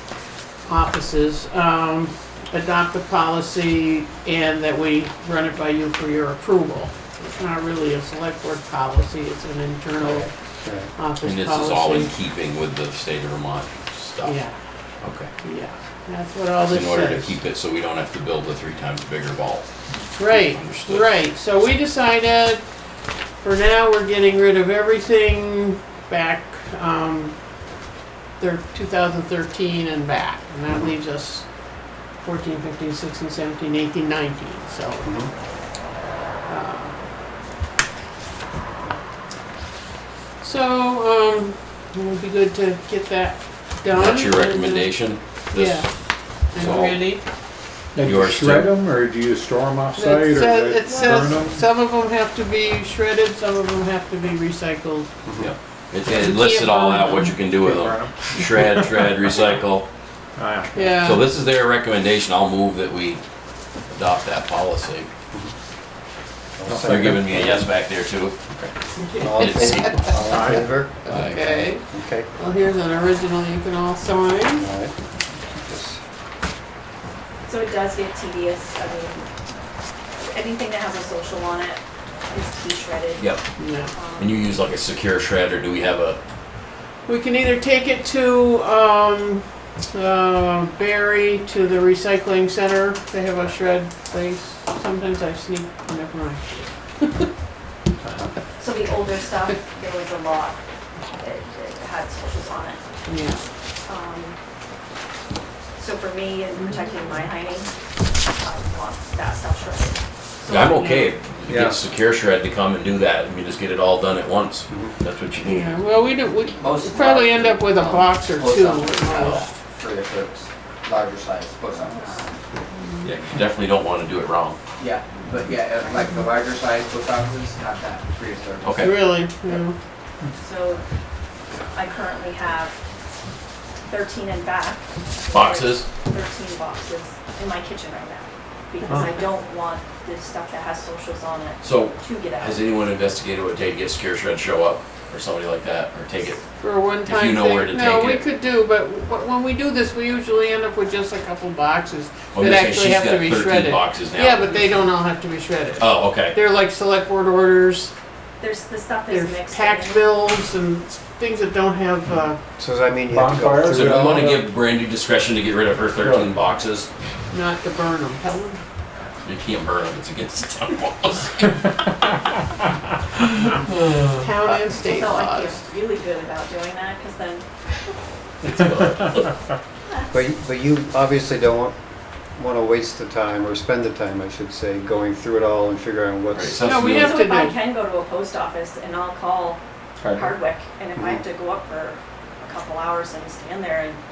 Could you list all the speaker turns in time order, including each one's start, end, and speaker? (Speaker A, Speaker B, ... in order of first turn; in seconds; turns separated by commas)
Speaker A: 0.7-10.3, Speaker B: 10.2-10.9, Speaker A: 11.0-12.1, Speaker C: 11.2-14.4, Speaker A: 14.2-14.6, Speaker C: 15.0-15.3, Speaker A: 15.4-17.3, Speaker C: 16.7-19.7, Speaker A: 20.2-22.6, Speaker C: 20.2-21.1, Speaker A: 23.4-27.4, Speaker A: 28.4-31.5, Speaker A: 32.2-35.1, Speaker B: 35.0-35.3, Speaker A: 36.5-37.0, Speaker A: 40.4-44.9, Speaker C: 43.9-45.9, Speaker A: 45.5-45.9, Speaker C: 46.5-47.0, Speaker A: 46.5-47.2, Speaker D: 48.0-51.6, Speaker C: 48.0-48.7, Speaker A: 50.0-55.1, Speaker B: 55.2-55.5, Speaker C: 55.4-59.9, Speaker A: 56.1-57.4, Speaker D: 57.5-59.2, Speaker D: 60.4-60.8, Speaker A: 60.8-61.2, Speaker C: 60.8-63.2, Speaker C: 63.9-65.1, Speaker B: 66.6-67.6, Speaker D: 66.7-67.5, Speaker C: 66.9-68.4, Speaker A: 69.0-70.2, Speaker B: 69.2-72.3, Speaker C: 69.2-70.2, Speaker D: 70.2-70.8, Speaker C: 71.0-71.7, Speaker A: 71.0-71.8, Speaker A: 72.4-74.7, Speaker B: 74.5-76.0, Speaker E: 77.5-79.3, Speaker E: 80.2-83.3, Speaker A: 83.6-83.9, Speaker E: 83.9-84.4, Speaker C: 84.2-86.2, Speaker A: 87.1-97.3, Speaker D: 98.0-98.3, Speaker E: 98.6-100.6, Speaker E: 101.1-102.8, Speaker A: 103.1-103.4, Speaker E: 103.9-104.4, Speaker E: 105.8-110.7, Speaker C: 110.5-115.8, Speaker A: 110.5-111.1, Speaker B: 111.5-111.8, Speaker B: 114.7-115.0, Speaker A: 115.4-119.5, Speaker F: 116.6-122.1, Speaker E: 121.9-122.4, Speaker A: 122.7-123.1, Speaker C: 123.0-124.6, Speaker F: 124.8-128.8, Speaker C: 128.6-129.0, Speaker A: 128.8-129.8, Speaker E: 130.4-130.8, Speaker E: 131.7-132.8, Speaker E: 133.9-142.6, Speaker C: 135.3-135.9, Speaker C: 141.6-146.4, Speaker A: 146.6-157.9, Speaker C: 147.0-148.2, Speaker C: 152.3-154.9, Speaker C: 155.8-156.4, Speaker E: 158.4-160.2, Speaker A: 159.1-162.4, Speaker B: 162.6-164.2, Speaker D: 163.1-164.5, Speaker C: 163.7-166.9, Speaker D: 166.0-166.4, Speaker A: 167.3-168.6, Speaker C: 169.2-171.6, Speaker A: 174.2-175.6, Speaker E: 174.8-177.4, Speaker C: 178.4-179.3, Speaker B: 180.1-181.8, Speaker B: 182.4-186.9, Speaker C: 186.3-187.2, Speaker A: 186.7-187.6, Speaker E: 186.9-194.0, Speaker D: 190.0-190.3, Speaker B: 190.9-191.2